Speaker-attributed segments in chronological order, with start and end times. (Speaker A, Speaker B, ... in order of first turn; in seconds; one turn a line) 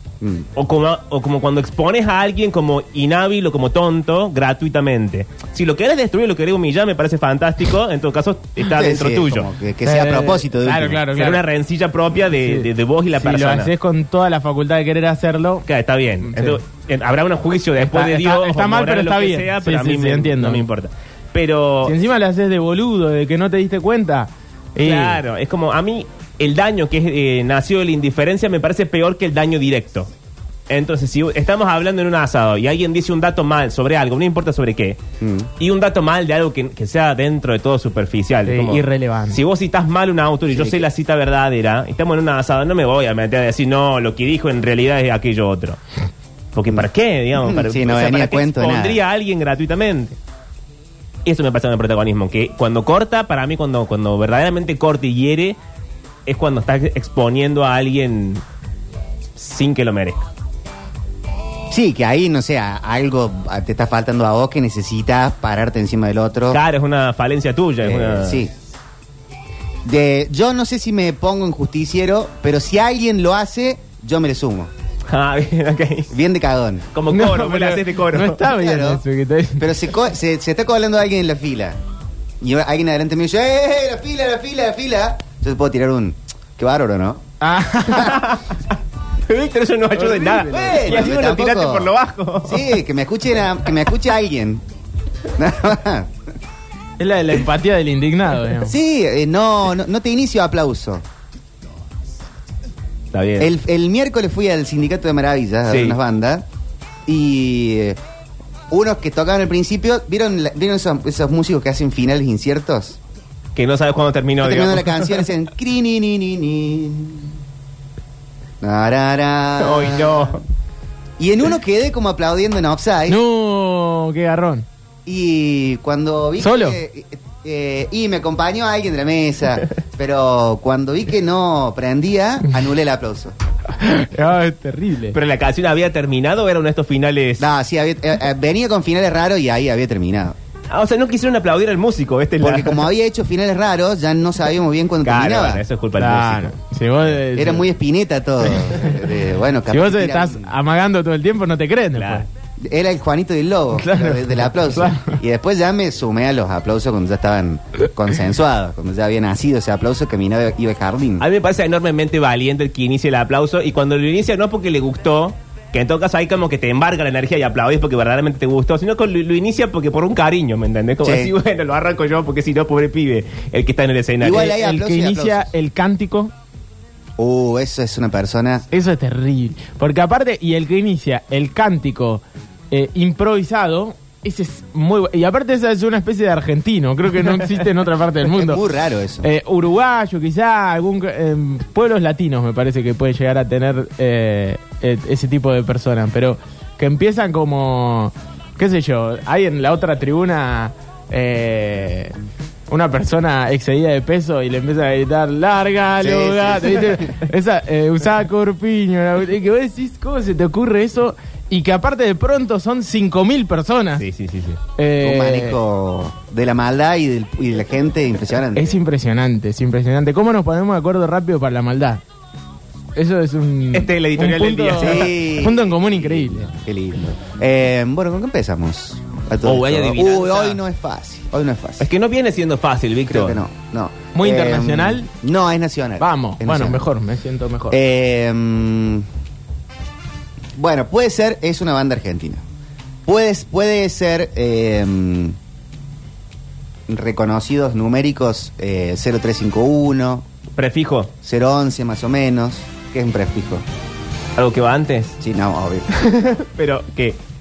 Speaker A: 0.2-0.5
Speaker B: 0.6-9.5
Speaker A: 8.6-11.1
Speaker C: 9.8-11.4
Speaker B: 11.1-13.7
Speaker C: 12.3-15.7
Speaker B: 15.7-22.0
Speaker C: 16.2-16.6
Speaker C: 17.8-20.6
Speaker C: 21.8-25.2
Speaker B: 24.8-30.1
Speaker B: 30.7-35.0
Speaker A: 35.2-35.5
Speaker B: 35.6-45.8
Speaker C: 38.5-39.4
Speaker A: 40.5-40.8
Speaker B: 46.5-50.2
Speaker A: 47.4-49.0
Speaker B: 51.2-55.6
Speaker B: 56.3-58.4
Speaker B: 59.4-60.2
Speaker A: 61.7-66.6
Speaker B: 66.5-68.4
Speaker A: 67.8-68.5
Speaker A: 69.8-74.7
Speaker B: 75.1-76.1
Speaker A: 76.1-76.9
Speaker B: 76.9-78.5
Speaker C: 77.1-79.8
Speaker A: 78.5-79.0
Speaker A: 79.6-81.8
Speaker A: 82.4-87.2
Speaker C: 87.4-88.3
Speaker B: 87.9-88.6
Speaker B: 89.3-92.7
Speaker C: 90.0-91.1
Speaker A: 90.4-91.9
Speaker A: 92.4-94.6
Speaker A: 95.4-96.1
Speaker C: 97.0-98.7
Speaker A: 98.6-101.0
Speaker B: 103.1-103.5
Speaker A: 103.4-106.5
Speaker B: 105.7-106.0
Speaker A: 107.1-108.0
Speaker A: 108.7-113.0
Speaker B: 113.6-115.3
Speaker A: 114.4-117.4
Speaker A: 118.6-120.4
Speaker B: 119.6-120.4
Speaker A: 121.2-123.2
Speaker C: 123.1-124.7
Speaker A: 125.1-133.3
Speaker C: 126.4-126.8
Speaker C: 133.8-135.2
Speaker B: 135.1-137.5
Speaker A: 137.4-140.4
Speaker B: 140.7-142.8
Speaker A: 142.4-145.6
Speaker B: 145.0-146.6
Speaker C: 146.0-147.7
Speaker A: 147.3-150.5
Speaker C: 149.7-152.3
Speaker B: 151.9-152.2
Speaker A: 152.6-161.3
Speaker C: 153.8-155.2
Speaker B: 161.2-174.6
Speaker A: 171.0-171.3
Speaker A: 174.2-175.5
Speaker C: 174.4-176.3
Speaker A: 177.2-178.7
Speaker C: 178.7-188.6
Speaker A: 188.3-189.3
Speaker C: 189.2-202.2
Speaker C: 202.7-214.1
Speaker A: 206.0-207.1
Speaker B: 214.0-214.6
Speaker C: 214.8-215.6
Speaker A: 215.0-218.8
Speaker C: 218.6-222.0
Speaker C: 223.0-226.5
Speaker B: 223.7-225.2
Speaker A: 224.8-231.9
Speaker B: 229.4-230.6
Speaker B: 231.8-233.4
Speaker A: 233.1-236.8
Speaker C: 234.1-235.1
Speaker C: 236.0-237.8
Speaker A: 237.7-239.1
Speaker A: 240.6-242.4
Speaker A: 243.1-245.4
Speaker A: 246.9-250.3
Speaker B: 250.6-251.1
Speaker A: 251.2-253.6
Speaker B: 254.4-255.2
Speaker A: 255.2-256.0
Speaker B: 255.9-257.2